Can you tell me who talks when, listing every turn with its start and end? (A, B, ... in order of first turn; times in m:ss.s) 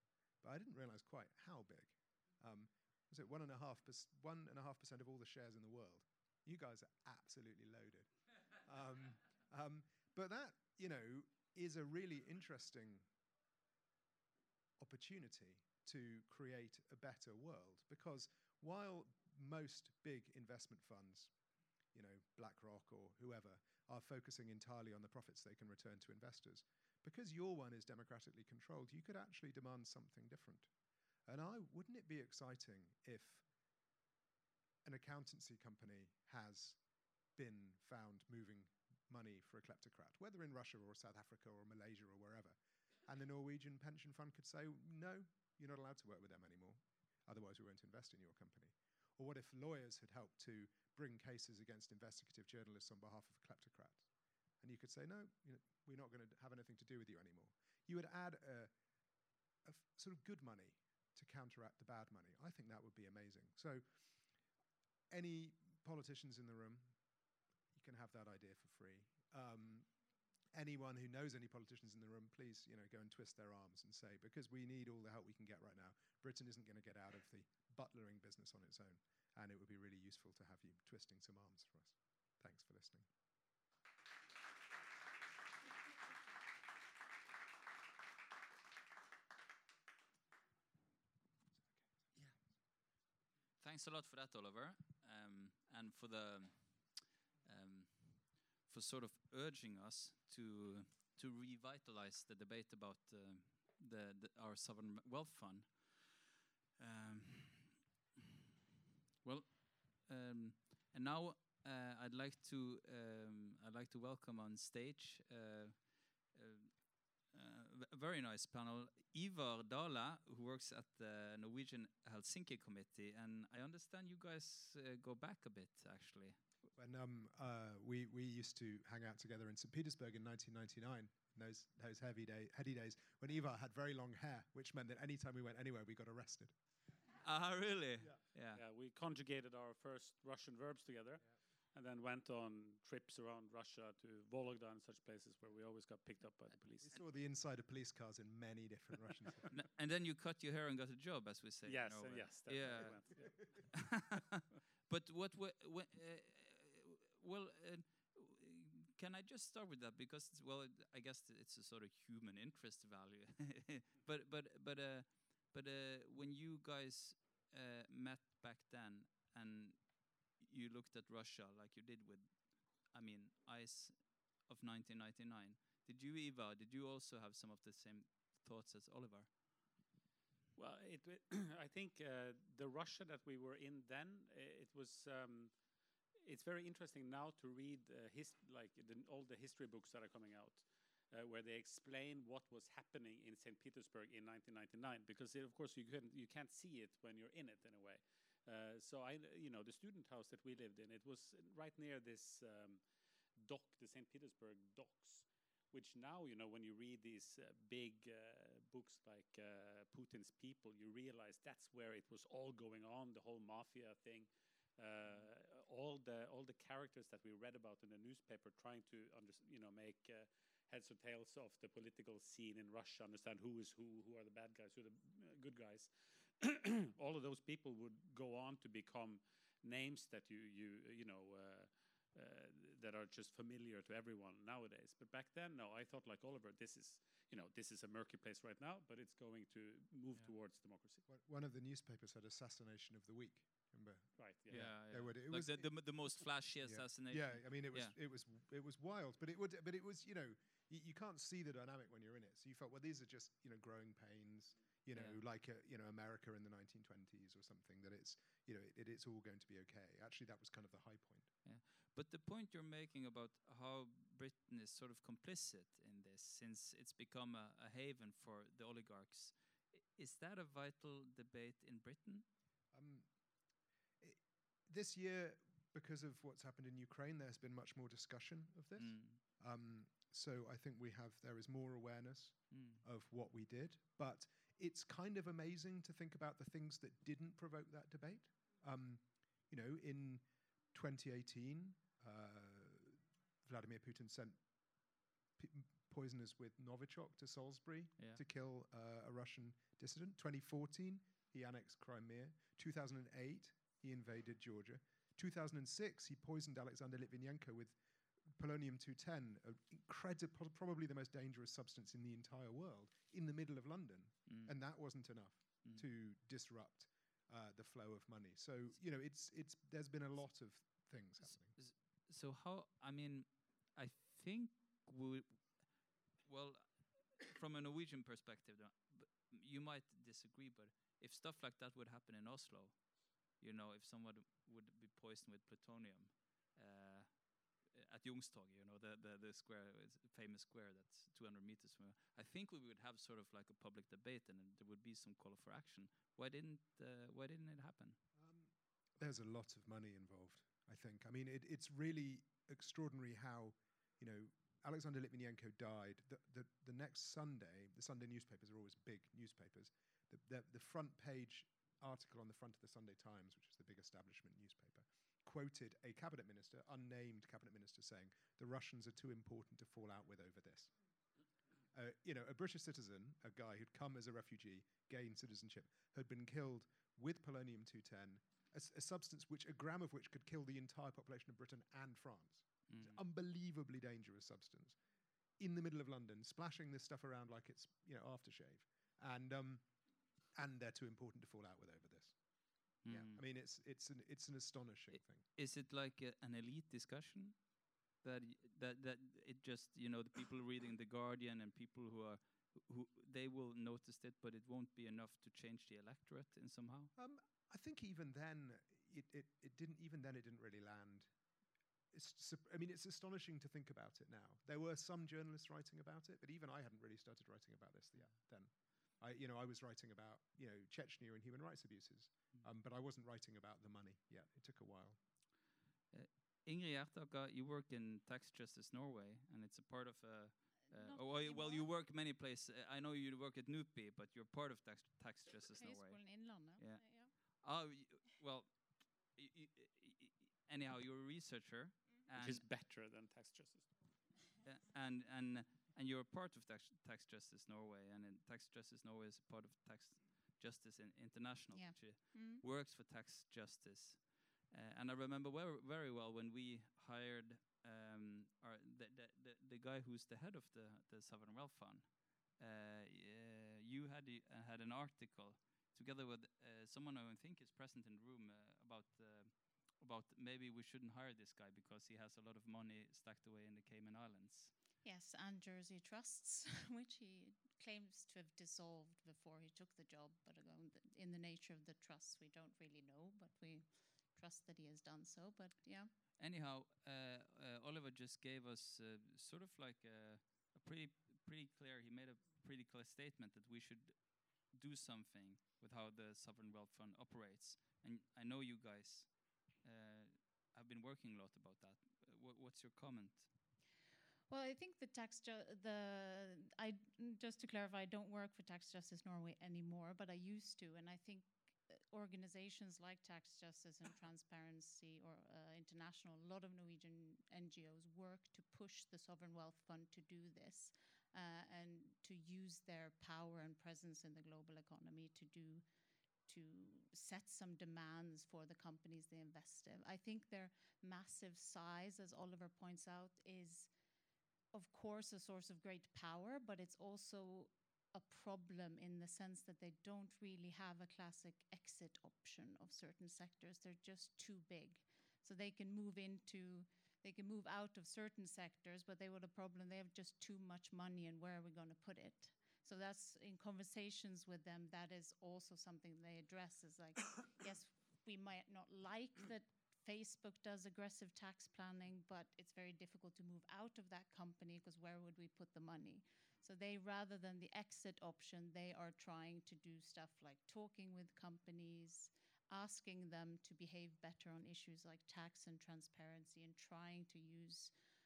0:00.4-0:13.1 A
0:14.8-0:21.3 A
0:21.9-0:30.7 A
0:31.3-0:33.4 A
0:34.8-0:36.8 A
0:37.4-0:54.1 A
0:54.6-0:58.7 A
0:59.6-1:03.8 A
1:05.1-1:07.0 A
1:07.7-1:09.9 A
1:10.5-1:23.1 A
1:33.6-1:46.2 B
1:46.8-1:47.8 B
1:49.2-1:56.8 B
1:57.3-2:06.4 B
2:06.8-2:16.6 A
2:17.2-2:18.6 B
2:18.6-2:27.0 C
2:26.8-2:29.5 A
2:29.5-2:59.3 B
2:31.6-2:33.7 C
3:00.6-3:05.6 C
3:06.2-3:22.8 C
3:23.4-4:01.0 C
4:01.1-4:05.7 A
4:04.2-4:04.7 C
4:04.5-4:07.9 B
4:06.6-4:21.3 A
4:14.9-4:15.2 B
4:21.4-4:32.2 B
4:32.7-4:33.1 A
4:34.0-4:54.4 A
4:38.8-4:39.2 B
4:42.5-4:42.8 B
4:55.4-5:07.8 A
5:08.3-5:21.6 A
5:14.3-5:14.5 B
5:21.2-5:25.7 B
5:26.2-5:32.9 B
5:33.4-5:48.0 B
5:48.2-6:10.7 A
6:11.7-6:24.8 A
6:22.7-6:23.0 B
6:25.4-6:29.6 A
6:30.4-6:32.2 A
6:32.8-6:33.2 B
6:32.9-6:35.2 A
6:35.4-6:37.4 B
6:38.0-6:46.9 B
6:47.0-6:51.1 A
6:51.9-7:05.0 A
7:05.9-7:16.0 B
7:10.7-7:11.7 D
7:15.6-7:17.1 D
7:16.6-7:22.4 B
7:22.2-7:23.7 C
7:24.4-7:54.5 B
7:31.5-7:32.4 D
7:54.8-8:05.9 D
8:06.2-8:23.3 B
8:24.3-8:45.6 D
8:46.3-8:53.7 D
8:54.5-9:37.7 D